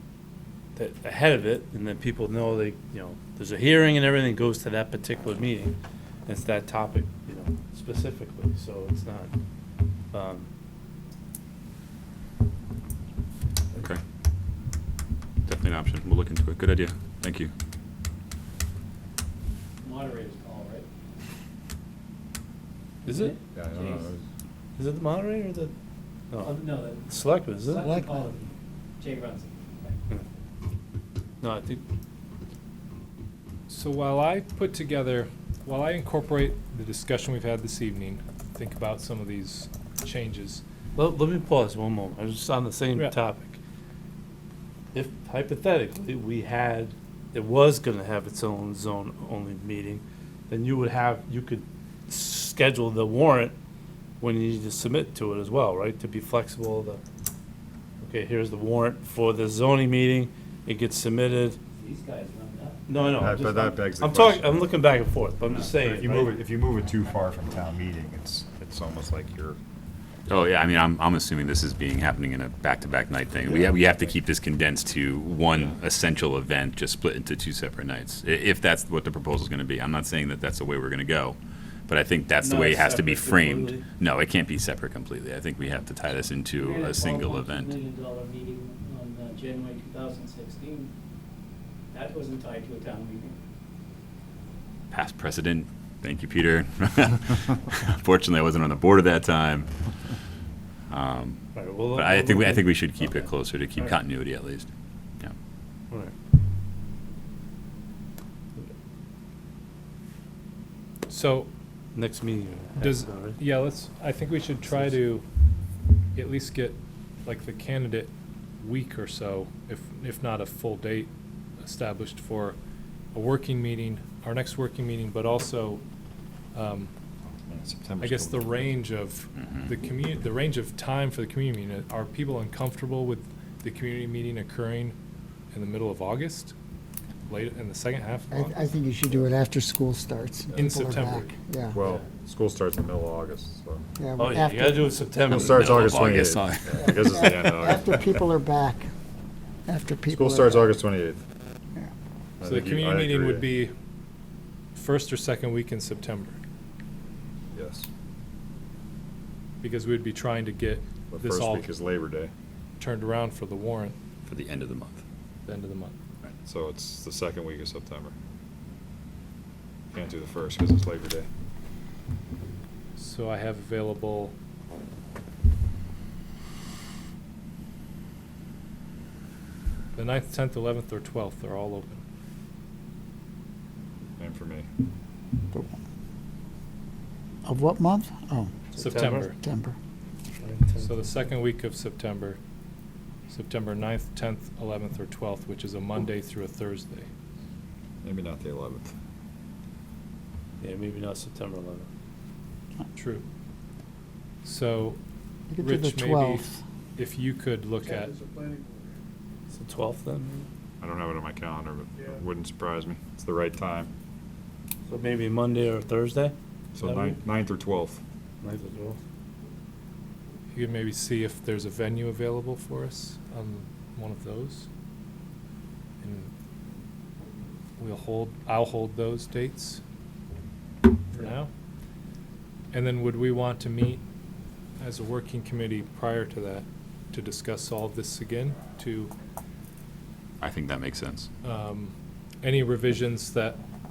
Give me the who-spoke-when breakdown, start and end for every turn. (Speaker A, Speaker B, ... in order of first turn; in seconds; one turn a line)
Speaker A: 0.8-5.8
Speaker A: 6.3-9.3
Speaker A: 10.1-10.5
Speaker B: 13.8-14.0
Speaker B: 15.5-17.5
Speaker C: 19.8-20.9
Speaker A: 23.1-23.4
Speaker C: 23.1-24.1
Speaker D: 23.5-24.2
Speaker A: 24.8-25.7
Speaker A: 26.3-27.9
Speaker C: 26.4-30.0
Speaker E: 27.8-28.2
Speaker A: 31.4-31.9
Speaker F: 33.7-40.6
Speaker A: 41.0-43.6
Speaker A: 44.9-53.5
Speaker A: 54.2-57.0
Speaker A: 58.0-61.6
Speaker C: 61.8-63.1
Speaker A: 62.9-66.4
Speaker D: 63.2-64.6
Speaker D: 65.7-69.6
Speaker B: 70.3-81.4
Speaker D: 73.5-73.9
Speaker B: 81.9-87.8
Speaker A: 82.4-83.8
Speaker C: 86.5-90.9
Speaker C: 91.9-93.4
Speaker B: 94.9-99.7
Speaker B: 100.9-101.4
Speaker A: 101.5-104.0
Speaker B: 101.9-104.7
Speaker F: 111.1-111.5
Speaker A: 112.0-113.4
Speaker F: 112.8-115.2
Speaker A: 114.7-114.9
Speaker F: 116.2-121.1
Speaker F: 121.6-122.6
Speaker F: 123.1-125.8
Speaker F: 126.5-126.9
Speaker D: 127.5-128.8
Speaker F: 128.0-134.9
Speaker B: 129.4-129.7
Speaker F: 135.5-136.5
Speaker F: 137.3-138.6
Speaker E: 138.3-141.8
Speaker D: 140.5-143.9
Speaker F: 140.6-141.2
Speaker E: 144.0-144.9
Speaker A: 144.2-146.0
Speaker D: 145.3-148.2
Speaker B: 145.3-147.2
Speaker E: 146.8-148.9
Speaker E: 149.7-150.8
Speaker D: 150.1-151.2
Speaker D: 152.4-153.5
Speaker F: 152.5-153.7
Speaker F: 154.8-156.4
Speaker D: 157.5-157.9
Speaker F: 159.6-161.7
Speaker D: 161.1-162.3
Speaker F: 162.8-164.0
Speaker B: 164.3-165.0
Speaker F: 165.5-165.9
Speaker D: 166.4-168.1
Speaker D: 169.9-171.3
Speaker F: 173.0-174.3
Speaker F: 179.9-182.0
Speaker D: 184.2-184.7
Speaker E: 187.4-188.6
Speaker A: 188.7-189.3
Speaker F: 188.8-189.4
Speaker E: 189.3-189.8
Speaker A: 190.4-191.2
Speaker F: 190.8-192.4
Speaker F: 193.3-197.1
Speaker D: 198.0-198.9
Speaker A: 200.6-201.9
Speaker F: 203.0-203.2
Speaker F: 204.4-205.0
Speaker E: 205.5-206.6
Speaker F: 205.6-208.3
Speaker A: 209.5-210.5
Speaker D: 210.8-213.9
Speaker A: 214.9-217.2
Speaker D: 216.7-218.0
Speaker A: 218.4-219.0
Speaker F: 220.6-224.7
Speaker F: 226.0-226.3
Speaker F: 227.8-229.8
Speaker F: 231.1-231.5
Speaker F: 232.7-234.0
Speaker F: 234.8-239.1
Speaker B: 240.4-241.3
Speaker F: 241.4-243.6